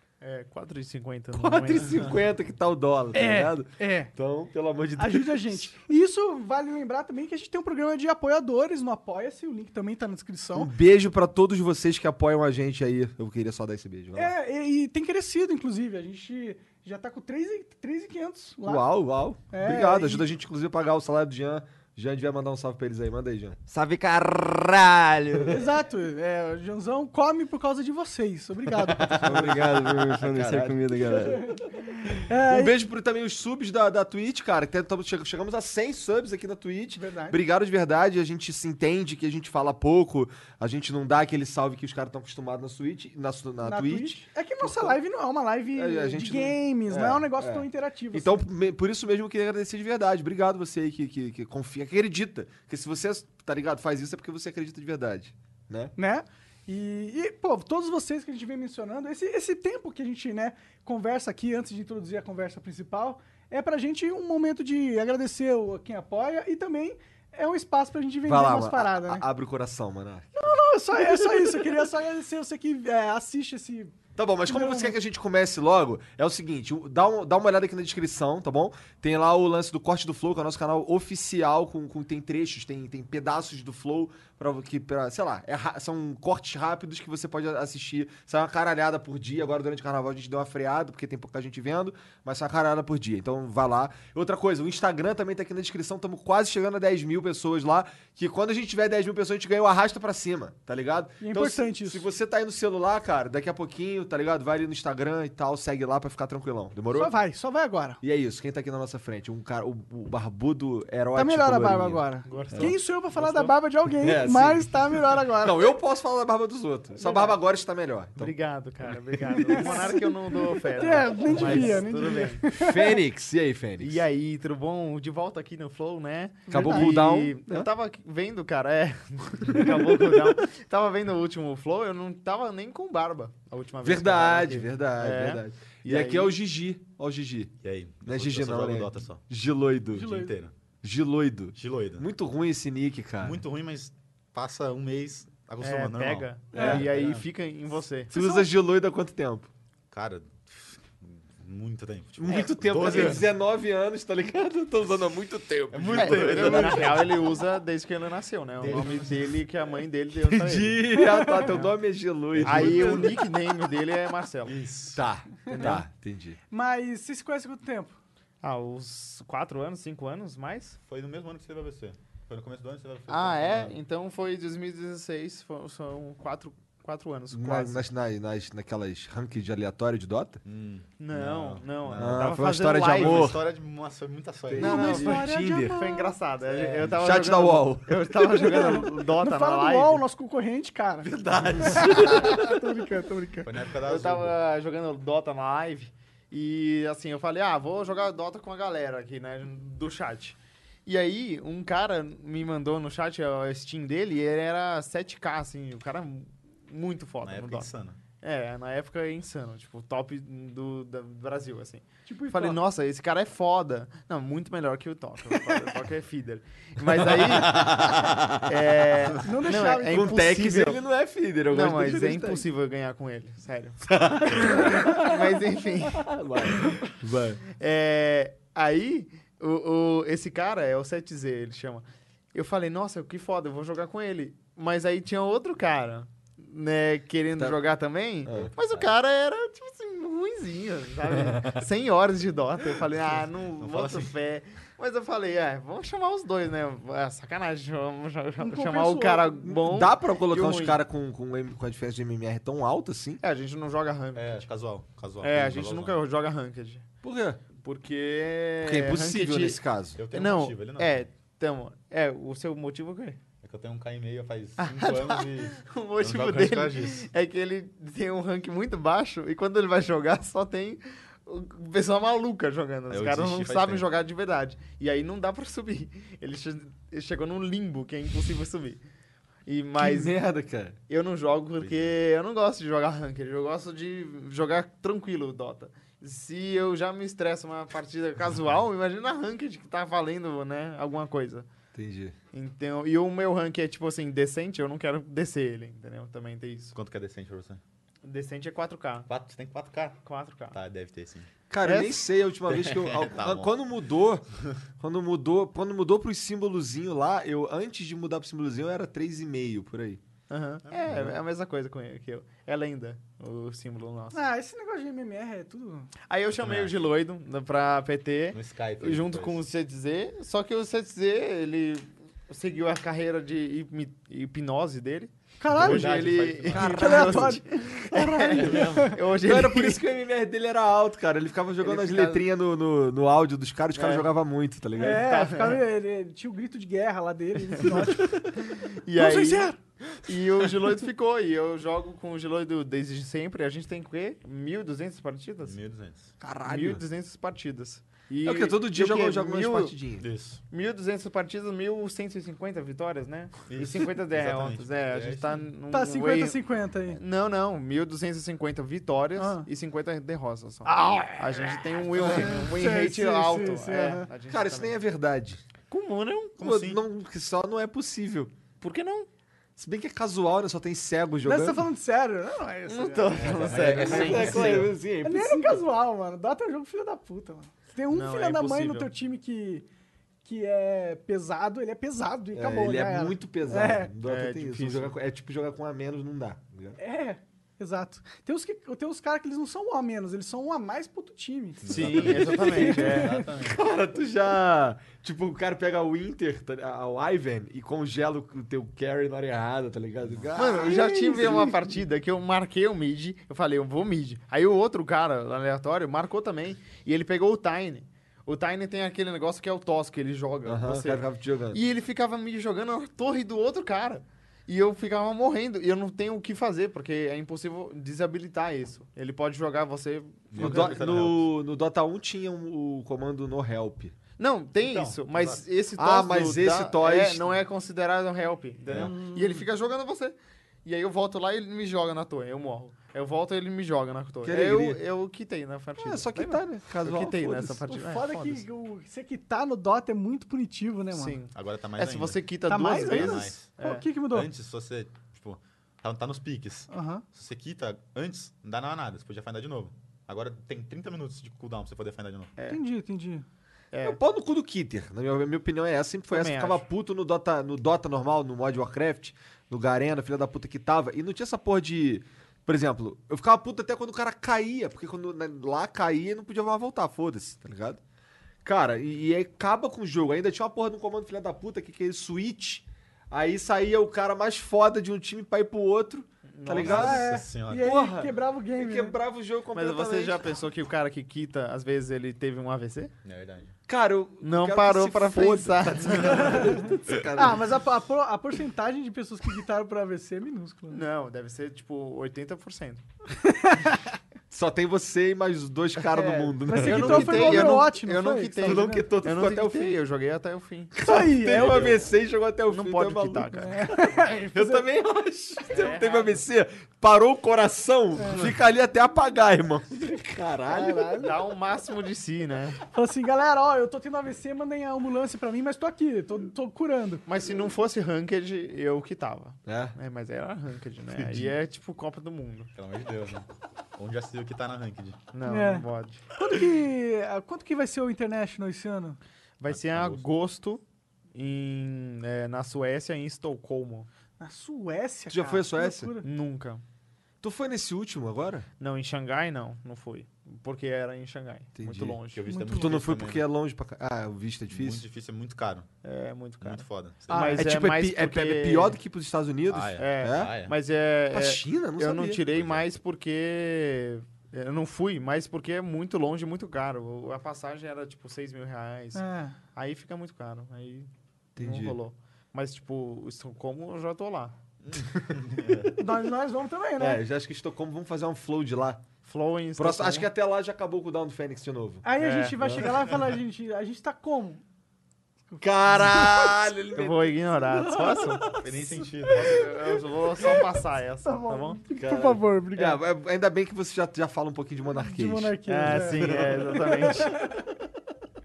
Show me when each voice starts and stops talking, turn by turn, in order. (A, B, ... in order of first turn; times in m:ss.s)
0:00.2-0:02.0 A
0:01.3-0:05.7 B
0:03.1-0:04.1 C
0:05.0-0:10.7 C
0:10.5-0:14.3 B
0:14.2-0:18.8 C
0:18.6-0:23.6 B
0:19.5-0:20.2 C
0:23.6-0:25.7 D
0:25.5-0:29.2 C
0:29.0-0:29.4 E
0:29.2-0:31.5 D
0:29.2-0:31.5 B
0:30.2-0:30.5 E
0:31.1-0:32.7 C
0:32.4-0:45.0 B
0:37.0-0:37.4 C
0:43.6-0:48.4 C
0:45.7-0:55.9 B
0:56.0-1:09.2 C
1:08.2-1:11.8 B
1:10.3-1:13.9 C
1:14.2-1:47.1 B
1:14.5-1:14.9 C
1:41.2-1:42.0 C
1:46.9-1:48.0 C
1:48.0-1:52.7 B
1:51.1-1:55.7 C
1:52.2-1:53.5 A
1:53.9-1:54.8 B
1:55.4-1:58.3 B
1:57.0-1:57.4 C
1:58.2-2:02.4 A
1:59.3-2:03.0 C
2:01.3-2:01.8 B
2:02.6-2:04.0 B
2:03.8-2:16.3 A
2:06.5-2:06.9 C
2:06.5-2:07.7 B
2:13.8-2:17.5 B
2:17.6-2:19.2 E
2:18.0-2:20.2 B
2:19.9-2:20.5 E
2:19.9-2:20.4 C
2:20.8-2:23.4 B
2:21.6-2:22.1 E
2:23.2-2:27.2 E
2:25.6-2:28.1 A
2:26.5-2:26.8 B
2:26.6-2:26.8 C
2:28.1-2:28.5 C
2:28.1-2:29.5 B
2:29.9-2:33.3 E
2:32.2-2:37.0 B
2:35.7-2:37.4 E
2:35.9-2:40.8 A
2:38.6-2:39.3 E
2:40.4-2:43.2 B
2:41.0-2:41.5 C
2:42.3-2:43.2 E
2:42.4-2:44.6 A
2:44.4-2:45.0 E
2:44.9-2:46.4 B
2:45.5-2:45.8 A
2:46.5-2:48.0 C
2:48.4-2:50.8 A
2:50.8-2:53.8 E
2:53.1-2:57.8 A
2:57.3-3:00.4 B
3:00.4-3:02.3 E
3:01.0-3:03.3 A
3:02.0-3:03.4 B
3:02.9-3:05.0 E
3:04.5-3:05.9 B
3:04.6-3:06.1 C
3:04.6-3:10.0 A
3:06.5-3:06.9 E
3:06.8-3:08.6 B
3:08.5-3:13.5 C
3:11.1-3:12.3 E
3:11.2-3:12.4 B
3:13.4-3:14.4 E
3:13.8-3:27.7 A
3:27.2-3:28.0 E
3:28.2-3:37.9 A
3:32.0-3:32.6 C
3:37.0-3:38.5 E
3:38.4-3:40.8 A
3:39.2-3:40.2 C
3:39.9-3:42.4 B
3:41.5-3:46.0 A
3:44.0-3:45.1 B
3:45.9-3:47.4 B
3:47.4-4:10.8 A
3:58.4-3:58.9 E
4:03.1-4:04.1 E
4:08.4-4:09.5 C
4:09.5-4:13.2 B
4:13.2-4:14.5 A
4:14.1-4:16.0 E
4:15.2-4:16.8 A
4:17.0-4:17.4 B
4:17.6-4:23.2 A
4:18.6-4:20.0 B
4:20.0-4:21.1 E
4:23.4-4:27.1 E
4:24.6-4:38.8 A
4:32.9-4:33.9 E
4:39.4-4:40.1 A
4:39.8-4:40.8 B
4:40.9-4:51.5 A
4:41.6-4:42.0 E
4:51.7-4:52.2 B
4:52.3-4:56.7 A
4:56.7-4:57.6 E
4:58.0-4:59.1 A
4:59.1-5:00.0 E
5:00.0-5:00.6 A
5:00.5-5:01.3 E
5:01.5-5:04.2 B
5:01.6-5:02.0 A
5:02.5-5:03.5 E
5:04.8-5:10.0 B
5:10.3-5:14.2 A
5:10.7-5:11.2 E
5:14.1-5:15.9 C
5:16.1-5:29.8 A
5:16.4-5:16.7 E
5:18.3-5:19.4 E
5:25.4-5:26.0 C
5:25.5-5:26.9 E
5:26.5-5:27.5 C
5:26.5-5:35.1 B
5:28.2-5:28.9 C
5:28.4-5:28.9 E
5:31.6-5:32.3 A
5:33.7-5:34.1 A
5:34.8-5:38.3 C
5:35.0-5:35.6 A
5:38.6-5:45.6 A
5:38.9-5:39.6 C
5:45.4-5:46.1 E
5:46.2-5:46.8 B
5:46.4-5:49.8 A
5:48.2-5:50.0 B
5:50.0-5:50.4 E
5:50.5-5:56.4 A
5:53.5-5:55.5 E
5:55.7-5:57.0 C
5:56.9-6:04.8 A
5:59.2-5:59.5 C
6:00.6-6:04.1 C
6:04.3-6:05.4 B
6:05.7-6:06.4 A
6:06.4-6:06.8 E
6:06.4-6:08.3 B
6:08.6-6:09.1 A
6:09.6-6:11.6 B
6:11.2-6:13.8 C
6:12.7-6:14.7 A
6:13.1-6:14.7 E
6:13.8-6:15.6 B
6:15.0-6:19.6 C
6:17.9-6:18.9 A
6:20.2-6:23.9 C
6:22.3-6:26.8 B
6:24.0-6:24.9 A
6:26.8-6:31.8 C
6:31.6-6:33.6 E
6:31.6-6:33.2 A
6:32.2-6:32.5 B
6:32.3-6:33.4 C
6:33.4-6:41.6 B
6:40.4-7:00.8 A
6:50.4-6:51.6 B
7:00.3-7:01.3 E
7:00.4-7:03.9 B
7:04.2-7:18.4 A
7:04.6-7:05.4 E
7:05.8-7:07.4 B
7:08.7-7:09.0 E
7:08.9-7:09.4 C
7:14.2-7:14.8 B
7:15.8-7:17.6 B
7:17.7-7:21.2 C
7:20.9-7:23.8 A
7:21.3-7:22.2 E
7:22.5-7:24.3 C
7:22.8-7:23.5 E
7:24.0-7:32.3 E
7:26.7-7:27.0 C
7:32.4-7:33.2 C
7:33.7-7:34.0 A
7:33.8-7:47.8 B
7:36.1-7:36.6 A
7:48.4-8:00.3 B
7:56.3-7:57.0 A
7:56.6-7:57.7 E
7:56.6-7:58.9 C
7:59.5-8:02.9 A
8:03.0-8:03.5 E
8:03.7-8:07.5 B
8:04.2-8:06.5 A
8:06.1-8:10.8 C
8:10.7-8:12.8 A
8:13.2-8:13.8 C
8:14.3-8:17.7 B
8:15.8-8:20.8 A
8:16.4-8:18.9 C
8:18.4-8:19.8 B
8:20.7-8:31.1 B
8:20.8-8:21.7 C
8:21.3-8:21.8 A
8:22.5-8:23.6 A
8:23.4-8:24.6 C
8:25.5-8:26.2 A
8:28.0-8:28.3 C
8:30.5-8:31.2 C
8:31.0-8:32.6 A
8:32.7-8:37.0 C
8:37.0-8:42.5 A
8:39.4-8:39.8 B
8:42.5-8:43.2 E
8:43.8-8:45.1 E
8:45.1-8:46.0 A
8:45.2-8:49.0 C
8:49.4-8:50.6 A
8:49.5-8:50.0 E
8:51.1-8:53.9 A
8:54.2-8:56.1 C
8:55.1-8:55.9 B
8:56.0-8:56.6 A
8:57.2-8:58.5 B
8:58.6-9:02.2 A
9:01.6-9:02.0 B
9:02.1-9:03.2 E
9:02.2-9:02.8 C
9:02.5-9:04.8 B
9:04.5-9:05.7 E
9:05.8-9:08.8 A
9:06.4-9:07.3 E
9:07.1-9:07.4 C
9:07.2-9:10.3 B
9:09.5-9:10.5 E
9:09.8-9:24.3 A
9:11.1-9:12.2 B
9:12.3-9:12.6 E
9:18.9-9:19.4 C
9:21.4-9:21.8 B
9:24.6-9:25.8 E
9:25.8-9:27.0 C
9:26.8-9:28.8 B
9:29.0-9:30.1 A
9:29.6-9:31.8 B
9:31.8-9:34.4 C
9:32.0-9:32.4 A
9:32.4-9:32.6 B
9:35.3-9:36.4 C
9:35.4-9:37.4 B
9:36.7-9:38.4 A
9:37.5-9:38.8 C
9:38.4-9:39.5 E
9:39.1-9:41.6 A
9:41.0-9:42.8 C
9:41.7-9:46.3 B
9:44.7-9:47.4 C
9:45.4-9:47.2 A